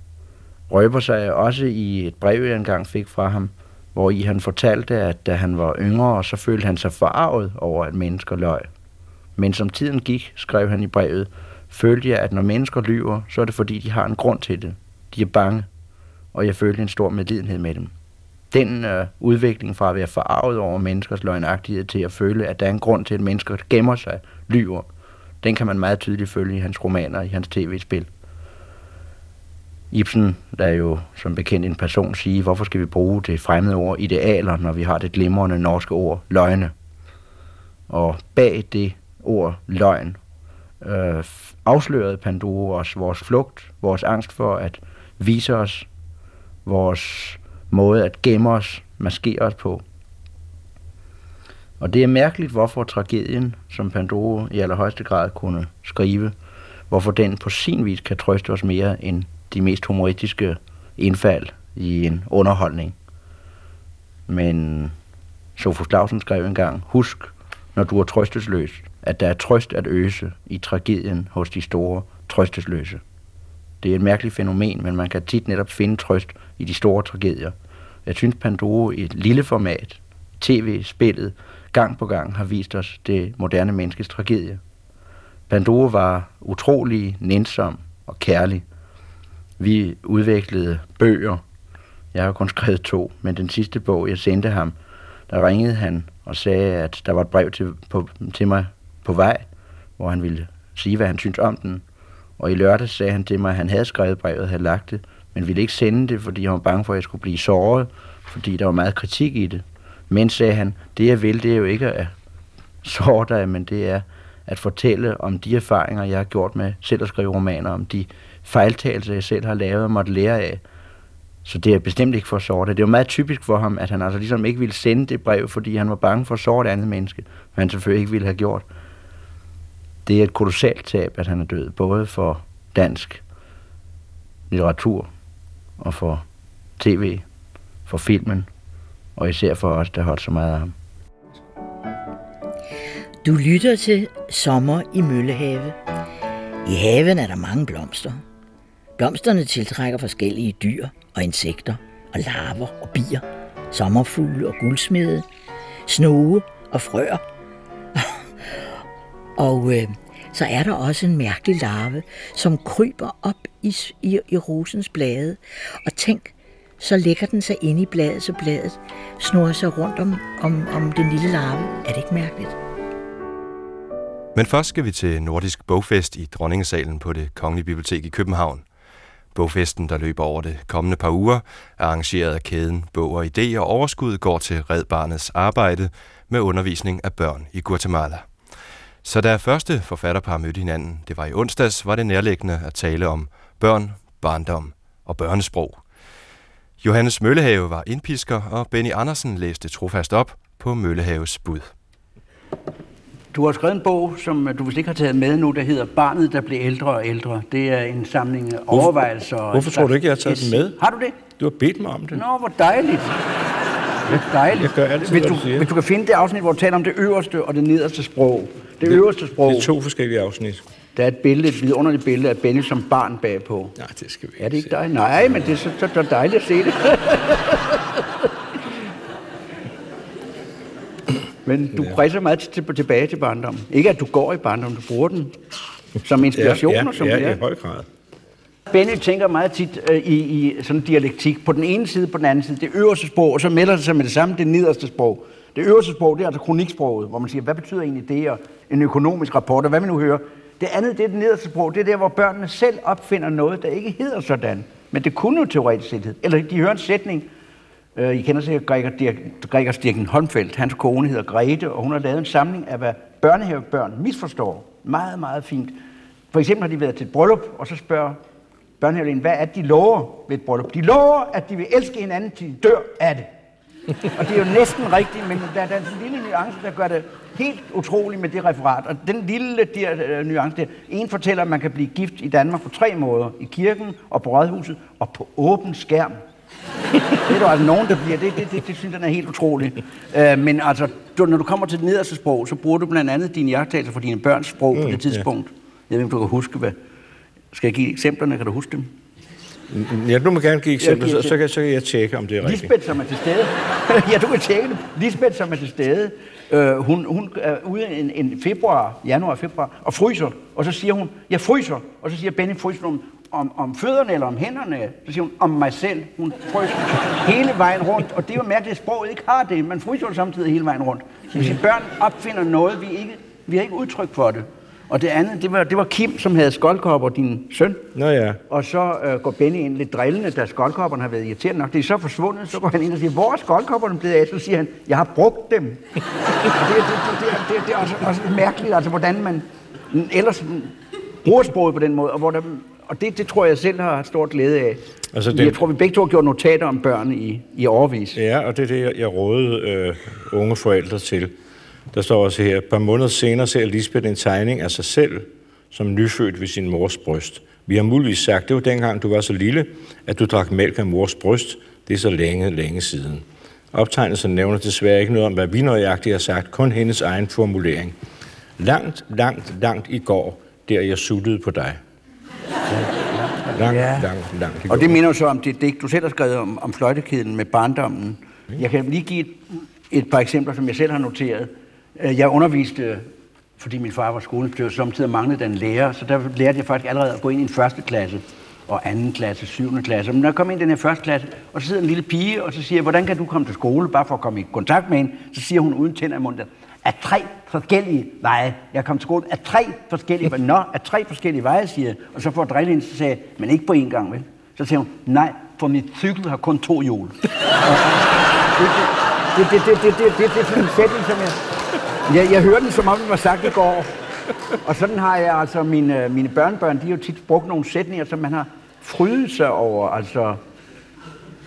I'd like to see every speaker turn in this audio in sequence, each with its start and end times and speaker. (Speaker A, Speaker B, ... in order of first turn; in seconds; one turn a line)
Speaker A: 0.7-8.7
Speaker A: 9.4-15.7
Speaker A: 16.3-17.9
Speaker A: 18.5-24.9
Speaker A: 25.4-28.1
Speaker A: 29.9-36.7
Speaker A: 37.9-40.2
Speaker A: 40.8-45.9
Speaker A: 46.7-49.8
Speaker A: 51.8-56.3
Speaker A: 56.9-63.0
Speaker A: 64.3-64.9
Speaker A: 65.6-73.0
Speaker A: 73.8-77.5
Speaker A: 78.1-84.6
Speaker A: 85.5-88.6
Speaker A: 89.6-91.4
Speaker A: 92.1-94.8
Speaker A: 95.3-101.8
Speaker A: 102.4-112.1
Speaker A: 112.8-120.6
Speaker A: 121.5-128.7
Speaker A: 130.1-133.2
Speaker A: 134.5-135.1
Speaker A: 135.8-136.2
Speaker A: 136.8-137.2
Speaker A: 137.9-138.5
Speaker A: 139.2-140.7
Speaker B: 143.2-145.8
Speaker B: 146.6-148.2
Speaker B: 149.0-155.3
Speaker B: 155.9-157.2
Speaker B: 157.9-158.8
Speaker B: 159.4-172.6
Speaker C: 174.3-178.7
Speaker C: 179.3-188.3
Speaker C: 189.0-195.8
Speaker C: 196.8-201.7
Speaker D: 203.3-211.2
Speaker E: 209.5-212.2
Speaker D: 212.1-213.2
Speaker E: 214.1-215.7
Speaker D: 214.1-219.7
Speaker E: 218.8-220.6
Speaker D: 221.0-223.7
Speaker E: 223.8-224.7
Speaker D: 224.4-227.6
Speaker D: 231.4-235.3
Speaker D: 236.0-237.4
Speaker E: 236.3-237.9
Speaker D: 238.7-257.3
Speaker D: 258.0-265.8
Speaker D: 266.3-268.2
Speaker D: 268.8-273.3
Speaker D: 274.1-286.1
Speaker D: 287.2-296.8
Speaker E: 294.7-295.2
Speaker D: 297.5-298.9
Speaker E: 299.7-302.8
Speaker D: 300.8-301.4
Speaker D: 302.4-327.8
Speaker E: 327.9-328.4
Speaker D: 328.5-335.8
Speaker D: 336.5-348.2
Speaker E: 345.1-345.6
Speaker E: 348.1-351.3
Speaker E: 351.9-368.0
Speaker E: 368.6-371.8
Speaker D: 373.2-374.1
Speaker E: 373.5-375.0
Speaker D: 374.6-383.1
Speaker D: 383.6-411.4
Speaker D: 412.1-413.9
Speaker D: 414.6-420.4